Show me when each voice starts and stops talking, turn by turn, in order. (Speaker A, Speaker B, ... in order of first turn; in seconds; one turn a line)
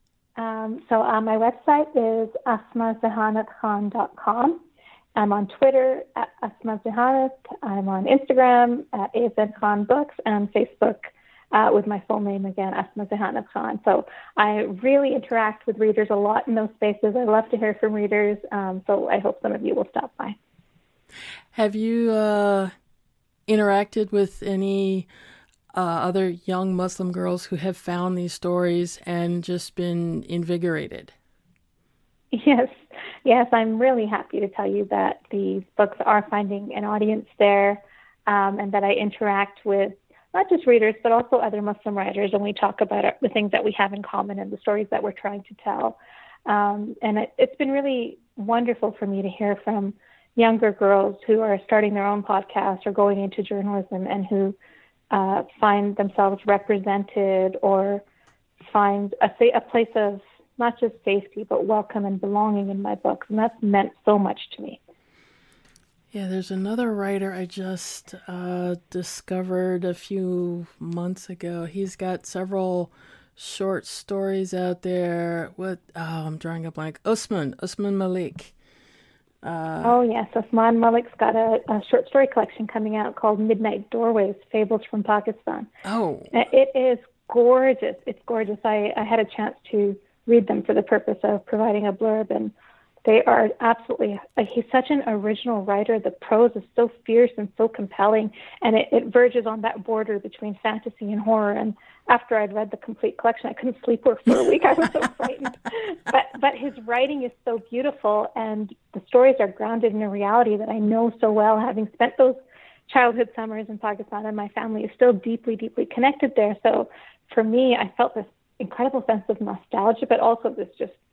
Speaker A: 0.4-4.6
Speaker A: 5.2-20.4
Speaker B: 21.5-22.7
Speaker B: 23.5-25.1
Speaker B: 25.7-31.1
Speaker A: 32.3-54.5
Speaker A: 55.1-58.0
Speaker A: 58.6-64.8
Speaker B: 66.1-78.5
Speaker B: 79.4-80.0
Speaker A: 79.8-85.7
Speaker B: 85.8-86.3
Speaker A: 86.3-92.5
Speaker A: 93.0-121.0